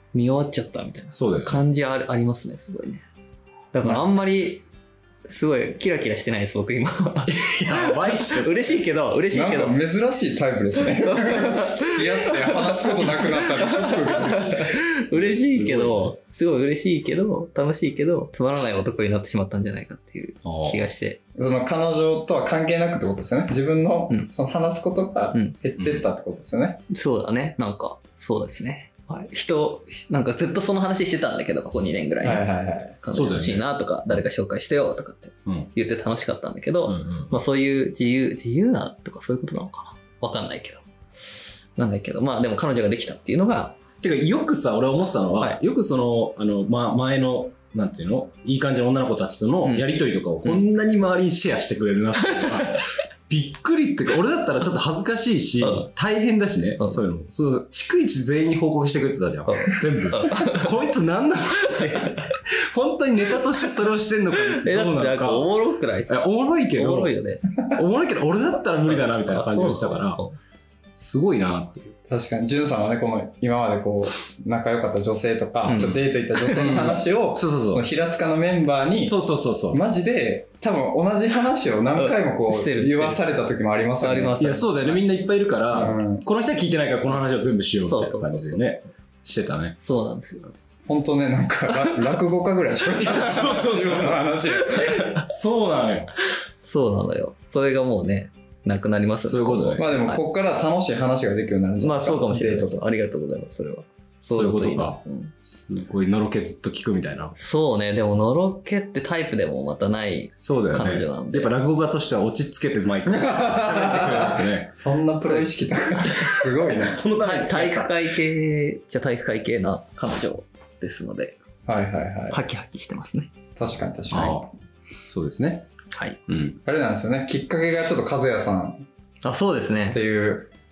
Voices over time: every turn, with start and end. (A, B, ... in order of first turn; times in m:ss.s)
0:00.1-0:03.0 A
0:01.1-0:01.6 B
0:03.7-0:04.7 A
0:03.8-0:04.1 C
0:05.2-0:09.8 A
0:07.3-0:08.8 B
0:09.3-0:14.8 C
0:11.0-0:21.2 A
0:15.1-0:16.1 B
0:20.4-0:20.8 B
0:21.4-0:26.8 C
0:25.8-0:26.1 B
0:26.9-0:40.9 A
0:32.2-0:33.0 C
0:33.1-0:33.6 B
0:36.9-0:37.4 B
0:41.8-0:43.8 A
0:44.0-1:05.5 B
0:45.4-0:45.6 A
0:49.6-0:49.9 A
0:52.4-0:52.7 A
0:55.6-0:55.9 A
0:59.5-1:00.7 A
1:01.7-1:02.2 A
1:04.4-1:07.4 A
1:06.1-1:07.1 B
1:07.7-1:10.2 B
1:09.0-1:10.4 A
1:11.0-1:11.9 B
1:12.1-1:19.2 C
1:15.7-1:17.9 B
1:15.7-1:16.8 A
1:18.9-1:19.8 B
1:19.7-1:24.4 C
1:21.9-1:23.3 A
1:24.0-1:25.0 A
1:24.4-1:30.0 B
1:25.7-1:26.2 C
1:27.8-1:28.6 A
1:29.8-1:30.4 A
1:30.9-1:35.0 C
1:32.9-1:36.1 B
1:34.8-1:35.2 A
1:36.6-1:40.2 A
1:39.1-1:39.8 B
1:39.8-1:42.8 C
1:41.8-1:45.3 A
1:44.2-1:47.4 B
1:47.4-1:51.5 A
1:50.4-1:54.7 B
1:53.0-1:57.0 C
1:55.2-1:56.1 A
1:56.1-1:57.9 B
1:57.2-2:01.4 A
2:01.7-2:02.4 C
2:02.3-2:03.3 A
2:03.6-2:04.5 C
2:04.1-2:04.4 B
2:05.0-2:05.7 B
2:05.9-2:06.2 A
2:06.3-2:06.6 B
2:06.6-2:08.8 C
2:09.2-2:10.0 A
2:09.9-2:10.5 C